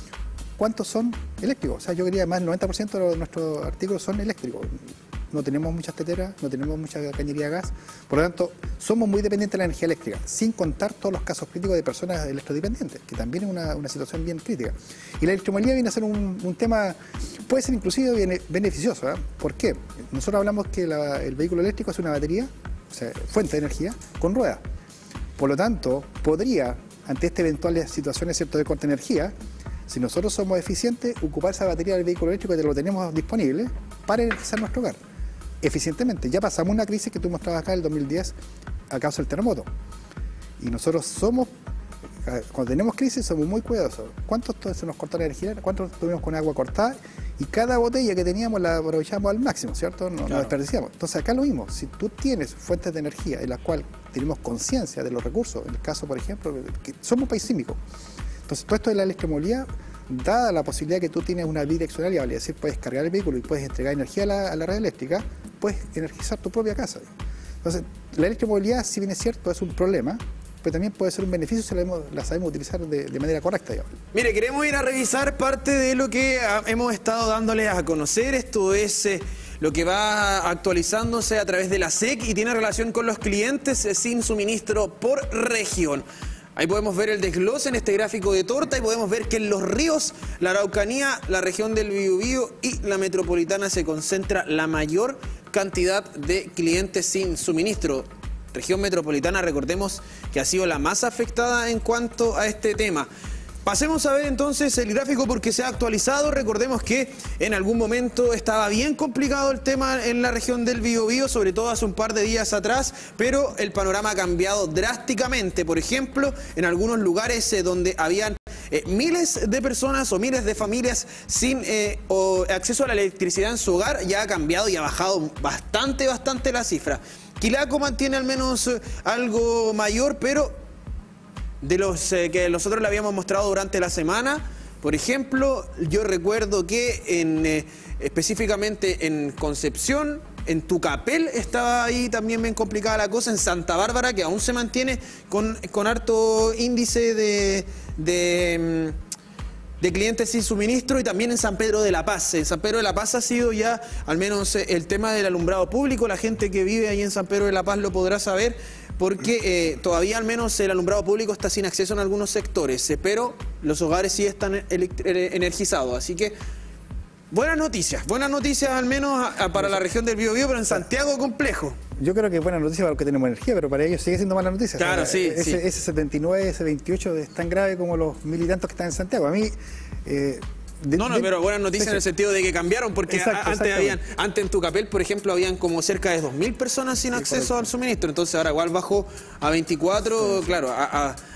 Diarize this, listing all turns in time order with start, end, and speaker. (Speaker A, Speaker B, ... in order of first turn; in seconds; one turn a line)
Speaker A: 0.6-24.6
Speaker A: 25.4-29.3
Speaker A: 29.9-35.0
Speaker A: 35.6-38.3
Speaker A: 38.9-39.7
Speaker A: 40.6-41.5
Speaker A: 42.2-57.8
Speaker B: 50.3-50.5
Speaker A: 58.5-67.1
Speaker A: 67.6-73.9
Speaker B: 74.1-86.0
Speaker B: 86.5-103.1
Speaker B: 103.6-130.5
Speaker B: 131.6-148.9
Speaker B: 149.8-166.3
Speaker B: 167.3-171.8
Speaker A: 169.5-169.8
Speaker A: 172.0-179.5
Speaker B: 174.8-175.6
Speaker A: 180.0-182.0
Speaker B: 180.9-191.2
Speaker A: 183.1-184.0
Speaker A: 187.2-187.6